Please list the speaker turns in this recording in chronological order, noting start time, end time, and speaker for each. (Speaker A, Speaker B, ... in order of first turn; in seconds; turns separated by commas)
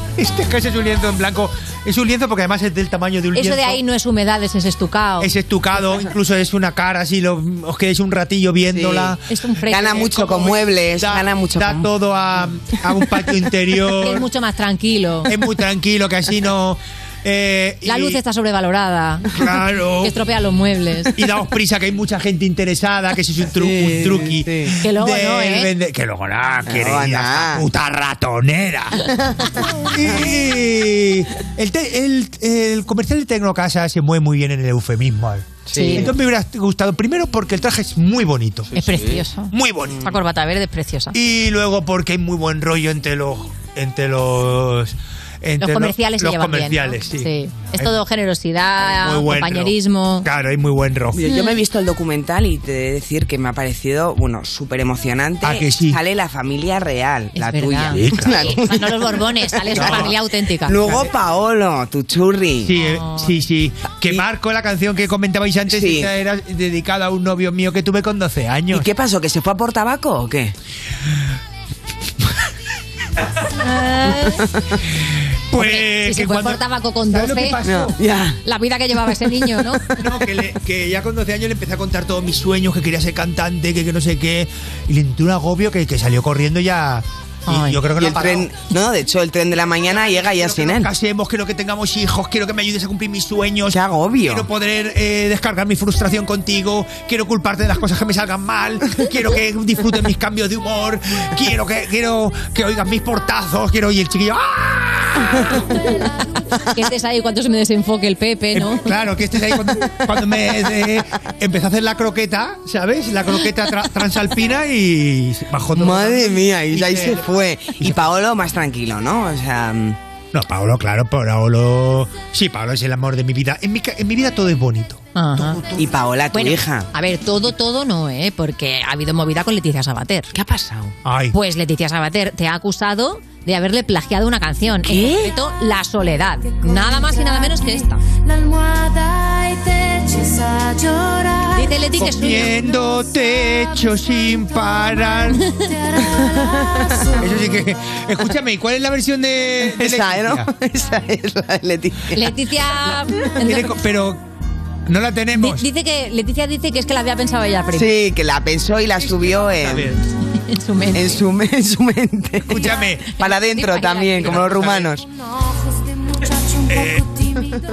Speaker A: 0.2-3.8, Speaker B: 3.3-5.3, Speaker A: 5.2-9.2, Speaker C: 8.7-9.1, Speaker B: 9.3-10.1, Speaker C: 9.7-11.9, Speaker A: 9.9-14.2, Speaker B: 14.0-15.3, Speaker A: 15.3-18.2, Speaker B: 17.8-19.3, Speaker A: 19.3-20.1, Speaker B: 20.0-21.1, Speaker A: 21.1-29.1, Speaker C: 23.6-24.7, Speaker B: 24.8-25.7, Speaker C: 26.6-27.6, Speaker A: 29.9-38.8, Speaker C: 35.7-36.1, Speaker B: 35.7-36.1, Speaker B: 38.7-41.1, Speaker C: 38.9-39.1, Speaker A: 39.5-40.1, Speaker A: 41.1-48.0, Speaker B: 45.6-50.3, Speaker A: 48.9-51.2, Speaker C: 51.1-62.7, Speaker B: 51.3-51.5, Speaker A: 55.4-56.0, Speaker B: 57.4-61.0, Speaker A: 57.9-58.4, Speaker A: 59.7-60.1, Speaker A: 62.6-68.8, Speaker B: 62.8-63.3, Speaker C: 65.7-66.1, Speaker C: 68.7-70.5, Speaker B: 73.6-74.4, Speaker A: 75.5-78.0, Speaker B: 75.5-77.6, Speaker C: 77.7-78.4, Speaker B: 78.4-80.0, Speaker A: 79.9-88.5, Speaker B: 87.5-87.8, Speaker C: 88.0-90.9, Speaker A: 89.9-105.5, Speaker C: 93.7-94.5, Speaker B: 106.7-108.9, Speaker A: 108.5-117.2, Speaker C: 115.8-120.0, Speaker A: 120.3-125.8, Speaker B: 125.1-125.6, Speaker C: 125.8-126.9, Speaker B: 126.3-130.3, Speaker C: 130.3-130.9, Speaker A: 131.0-131.3, Speaker B: 131.3-138.0, Speaker C: 134.9-135.3, Speaker D: 138.4-141.4, Speaker B: 141.5-142.5, Speaker A: 141.9-145.4, Speaker B: 145.4-145.7, Speaker C: 146.2-146.9, Speaker A: 147.2-150.5, Speaker C: 149.7-152.3, Speaker B: 152.1-153.7, Speaker A: 153.4-154.2, Speaker A: 154.9-155.6, Speaker B: 155.3-157.9, Speaker C: 157.7-159.9, Speaker A: 159.0-160.0, Speaker B: 160.5-161.2, Speaker C: 160.9-165.0, Speaker A: 162.4-163.2, Speaker B: 163.3-164.4, Speaker A: 164.2-164.9, Speaker A: 166.7-167.1